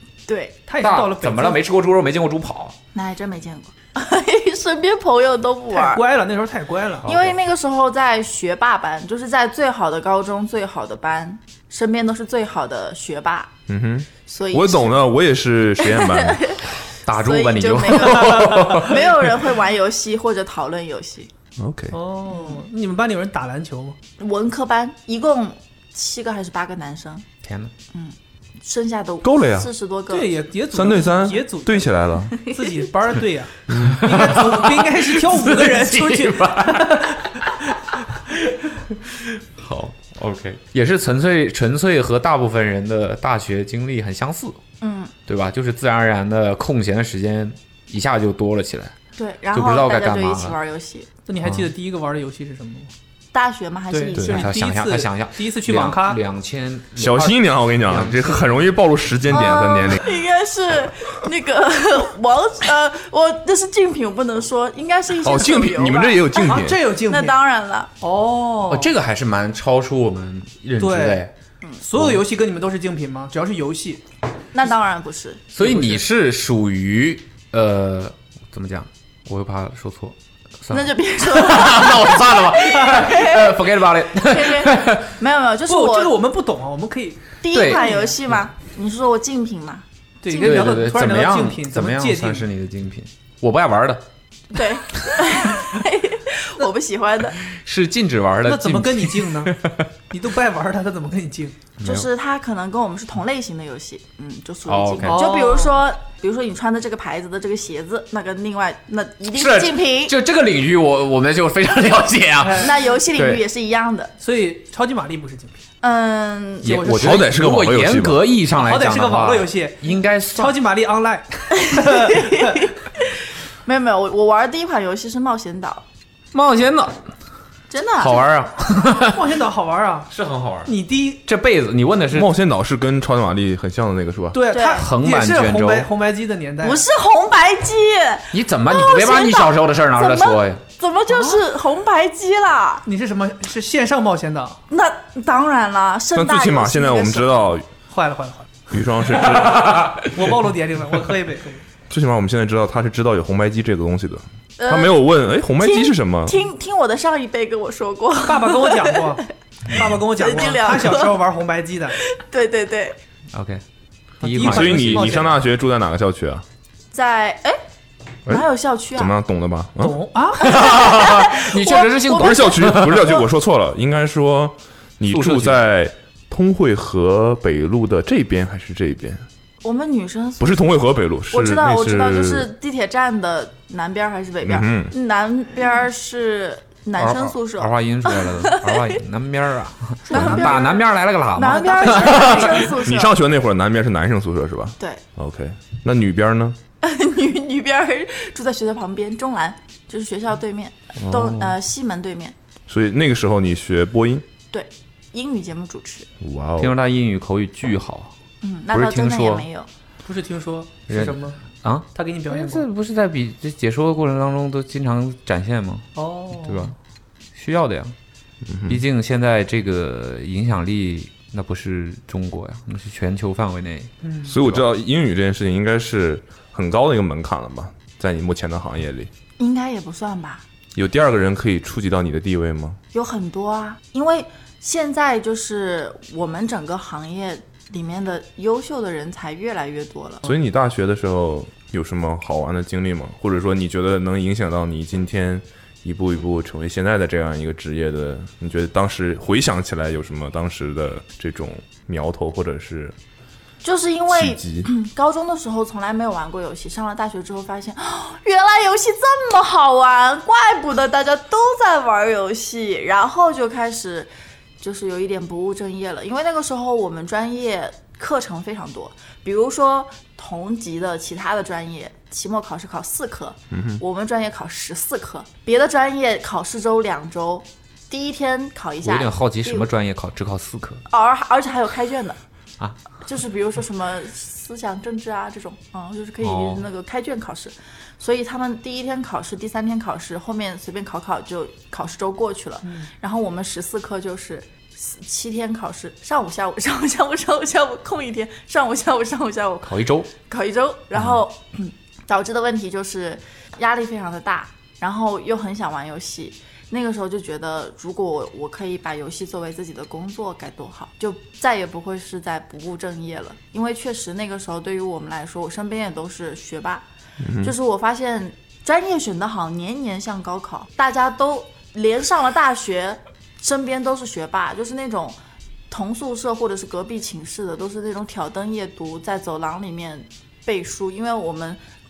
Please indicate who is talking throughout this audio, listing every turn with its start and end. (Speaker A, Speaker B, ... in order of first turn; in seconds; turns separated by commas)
Speaker A: 0.3-0.6, Speaker B: 0.7-1.6, Speaker C: 0.8-2.8, Speaker A: 3.0-6.0, Speaker B: 5.7-7.1, Speaker C: 7.0-7.4, Speaker A: 7.0-13.5, Speaker D: 13.7-16.6, Speaker A: 14.3-15.0, Speaker A: 15.9-21.3, Speaker C: 17.1-19.3, Speaker B: 18.1-18.8, Speaker D: 21.6-22.0, Speaker B: 21.9-24.0, Speaker A: 22.3-22.6, Speaker A: 24.2-27.2, Speaker C: 27.4-27.7, Speaker A: 27.9-30.3, Speaker D: 29.2-29.7, Speaker B: 30.1-37.2, Speaker D: 30.7-32.4, Speaker D: 33.7-34.2, Speaker C: 33.8-37.5, Speaker C: 39.1-44.6, Speaker A: 44.8-45.1, Speaker C: 45.3-49.0, Speaker A: 49.2-51.1, Speaker C: 49.5-50.6, Speaker B: 51.3-52.9, Speaker A: 53.3-54.6, Speaker B: 53.9-56.2, Speaker C: 54.2-58.5, Speaker D: 57.0-60.2, Speaker A: 59.3-67.9, Speaker D: 65.2-66.8, Speaker B: 66.4-67.4, Speaker B: 68.0-68.9, Speaker C: 68.7-71.3, Speaker B: 70.8-71.2, Speaker B: 71.8-74.0, Speaker C: 72.0-72.2, Speaker A: 74.5-75.4, Speaker C: 75.5-85.1, Speaker B: 75.6-76.0, Speaker A: 80.7-86.1, Speaker B: 85.7-88.2, Speaker A: 87.4-90.9, Speaker C: 87.5-87.8, Speaker B: 90.2-92.5, Speaker C: 90.3-94.0, Speaker A: 94.5-97.4, Speaker C: 97.4-99.9, Speaker B: 98.5-99.6, Speaker B: 100.1-101.6, Speaker C: 101.8-102.1, Speaker A: 101.8-110.2, Speaker C: 104.7-105.3, Speaker B: 105.1-105.8, Speaker C: 109.3-113.4, Speaker B: 112.4-112.7, Speaker A: 112.6-114.1, Speaker B: 114.2-115.6, Speaker A: 115.8-116.8, Speaker C: 116.6-120.6, Speaker B: 116.6-117.3, Speaker D: 116.8-118.3, Speaker B: 118.5-122.7, Speaker A: 121.7-123.1, Speaker A: 123.7-125.8, Speaker C: 126.3-127.0, Speaker A: 127.7-128.2, Speaker C: 128.0-129.2, Speaker B: 128.9-130.1, Speaker C: 130.1-130.7, Speaker B: 130.7-131.2, Speaker C: 131.2-132.3, Speaker D: 132.1-134.4, Speaker B: 134.3-136.8, Speaker A: 134.5-134.9, Speaker C: 134.8-135.9, Speaker A: 136.6-142.8, Speaker C: 138.3-140.6, Speaker B: 142.9-144.6, Speaker A: 144.7-147.3, Speaker D: 146.1-147.7, Speaker B: 147.9-148.8, Speaker D: 148.7-149.9, Speaker C: 149.3-150.1, Speaker B: 150.1-151.6, Speaker D: 151.9-156.5, Speaker A: 154.6-155.1, Speaker A: 155.6-159.2, Speaker B: 158.2-161.9, Speaker A: 160.1-161.2, Speaker A: 162.1-163.0, Speaker C: 163.3-163.6, Speaker C: 164.2-165.3, Speaker B: 164.2-165.4, Speaker D: 164.4-166.4, Speaker A: 166.9-167.6, Speaker A: 168.3-169.1, Speaker D: 168.3-170.0, Speaker B: 169.8-170.5, Speaker A: 170.4-173.1, Speaker C: 170.4-173.2, Speaker D: 172.1-179.3, Speaker C: 175.1-175.6, Speaker A: 179.6-180.7, Speaker D: 180.4-182.5, Speaker A: 181.3-189.0, Speaker D: 184.4-184.9, Speaker C: 187.0-192.7, Speaker A: 190.1-193.2, Speaker D: 190.1-190.5, Speaker B: 190.2-190.7, Speaker B: 191.6-192.7, Speaker D: 192.8-196.6, Speaker A: 196.8-202.3, Speaker C: 201.1-201.5, Speaker D: 202.7-204.3, Speaker A: 204.5-206.1, Speaker D: 206.2-206.8, Speaker C: 206.6-208.1, Speaker A: 208.4-209.7, Speaker C: 208.7-209.5, Speaker B: 210.0-211.4, Speaker C: 210.9-216.8, Speaker B: 211.9-212.7, Speaker B: 216.0-216.7, Speaker C: 217.3-217.9, Speaker D: 218.4-218.8, Speaker C: 218.7-224.6, Speaker B: 224.0-224.3, Speaker D: 224.2-229.1, Speaker A: 229.4-230.4, Speaker D: 230.8-232.8, Speaker A: 232.9-240.2, Speaker D: 240.2-253.0, Speaker A: 253.6-279.7, Speaker D: 254.1-254.7, Speaker D: 273.5-273.8, Speaker C: 278.8-280.8, Speaker A: 280.9-282.2, Speaker A: 283.0-316.9, Speaker C: 286.2-286.6, Speaker C: 299.6-300.1, Speaker D: 317.2-317.5, Speaker A: 317.4-325.2, Speaker A: 325.7-331.6